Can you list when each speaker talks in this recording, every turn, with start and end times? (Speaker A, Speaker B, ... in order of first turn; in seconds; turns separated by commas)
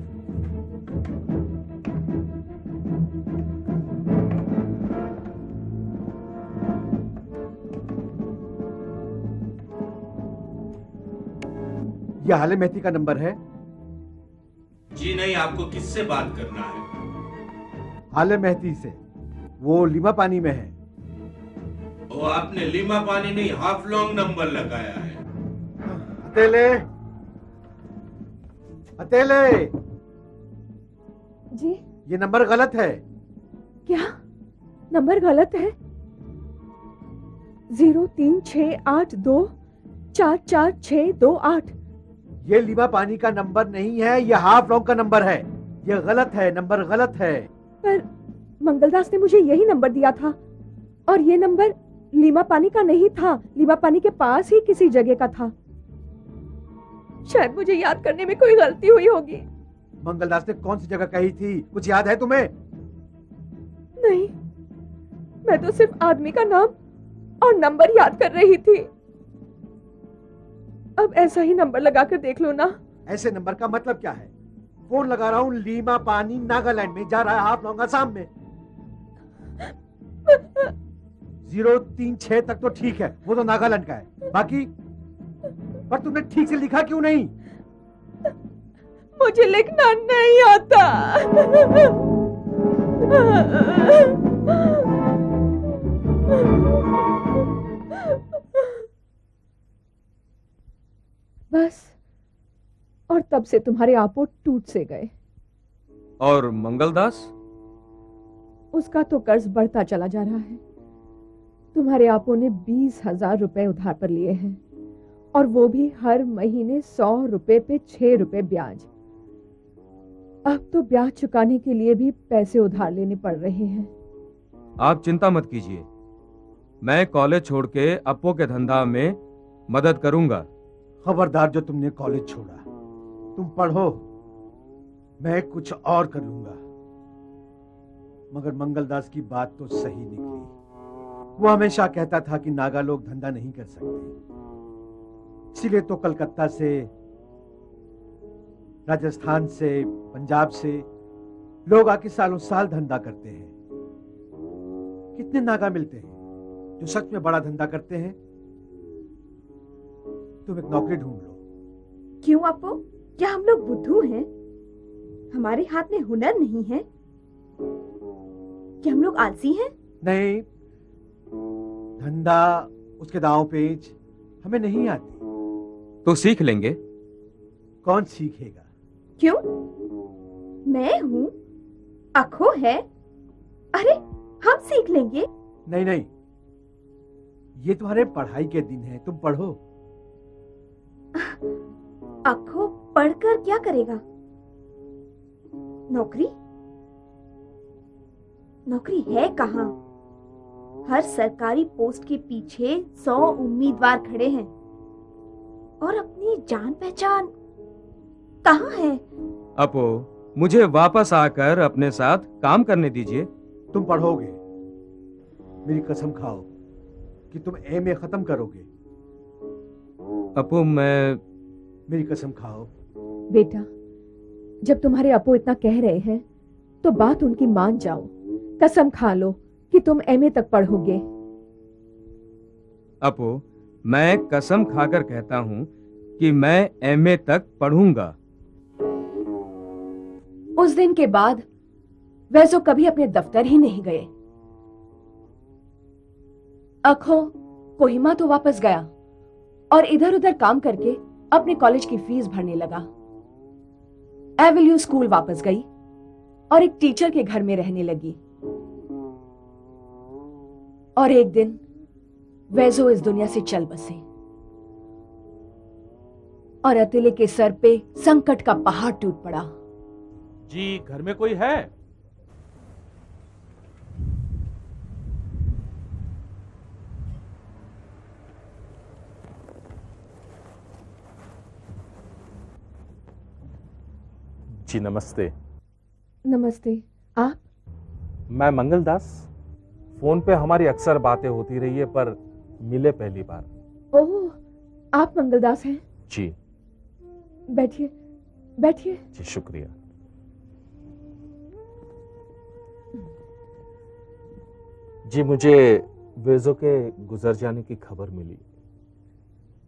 Speaker A: 12.2-13.4, Speaker B: 14.9-16.9, Speaker A: 18.1-19.0, Speaker A: 19.6-20.7, Speaker B: 22.1-25.2, Speaker A: 25.8-26.9, Speaker A: 29.0-29.7, Speaker C: 31.5-31.8, Speaker A: 32.1-33.0, Speaker C: 33.9-34.1, Speaker C: 34.9-35.8, Speaker C: 37.7-39.5, Speaker C: 40.1-41.8, Speaker A: 42.4-47.5, Speaker C: 48.6-50.4, Speaker C: 51.1-55.5, Speaker C: 57.3-59.5, Speaker A: 60.0-62.5, Speaker C: 64.0-64.3, Speaker C: 65.5-66.8, Speaker C: 67.4-68.9, Speaker C: 71.0-72.8, Speaker A: 73.1-74.3, Speaker A: 74.9-78.3, Speaker C: 80.3-80.7, Speaker A: 81.5-84.7, Speaker A: 85.9-87.3, Speaker C: 89.2-92.0, Speaker C: 93.0-94.8, Speaker C: 98.0-98.8, Speaker C: 101.5-101.9, Speaker C: 103.1-105.1, Speaker D: 106.2-107.3, Speaker C: 108.7-110.6, Speaker C: 111.7-114.6, Speaker C: 115.3-118.9, Speaker C: 120.5-123.9, Speaker D: 124.8-125.9, Speaker D: 126.8-130.5, Speaker A: 131.0-132.7, Speaker A: 133.4-134.1, Speaker A: 135.2-136.6, Speaker A: 138.3-140.5, Speaker A: 141.4-144.1, Speaker A: 145.5-146.9, Speaker A: 148.9-150.9, Speaker A: 151.7-153.5, Speaker A: 155.2-156.2, Speaker A: 156.8-158.2, Speaker A: 160.5-161.4, Speaker E: 162.2-164.3, Speaker E: 165.3-166.8, Speaker E: 168.8-169.7, Speaker A: 170.0-170.5, Speaker A: 172.0-175.2, Speaker D: 176.1-176.8, Speaker A: 177.8-178.7, Speaker E: 179.2-179.5, Speaker E: 180.7-181.3, Speaker E: 182.2-182.8, Speaker E: 183.7-185.3, Speaker A: 185.7-186.1, Speaker A: 187.6-189.6, Speaker E: 192.2-194.0, Speaker E: 195.9-196.3, Speaker E: 198.7-199.7, Speaker E: 200.8-204.5, Speaker E: 205.8-207.3, Speaker E: 208.4-209.0, Speaker D: 209.6-213.3, Speaker A: 213.7-214.4, Speaker A: 215.7-216.4, Speaker A: 217.3-218.7, Speaker D: 220.4-221.2, Speaker A: 221.9-222.7, Speaker C: 223.3-223.7, Speaker C: 224.6-226.2, Speaker C: 226.8-231.0, Speaker D: 233.0-238.2, Speaker C: 240.6-241.5, Speaker C: 242.3-244.1, Speaker C: 246.8-248.9, Speaker C: 249.7-252.9, Speaker C: 254.4-255.7, Speaker C: 256.5-258.2, Speaker C: 261.0-261.6, Speaker C: 262.5-264.0, Speaker C: 266.6-269.5, Speaker B: 270.5-271.7, Speaker B: 284.6-285.3, Speaker C: 286.3-287.4, Speaker B: 288.3-289.3, Speaker B: 290.0-293.5, Speaker C: 293.9-294.4, Speaker C: 294.9-295.8, Speaker B: 296.1-296.3, Speaker C: 297.5-297.9, Speaker C: 298.6-299.0, Speaker B: 299.1-299.7, Speaker B: 305.1-308.4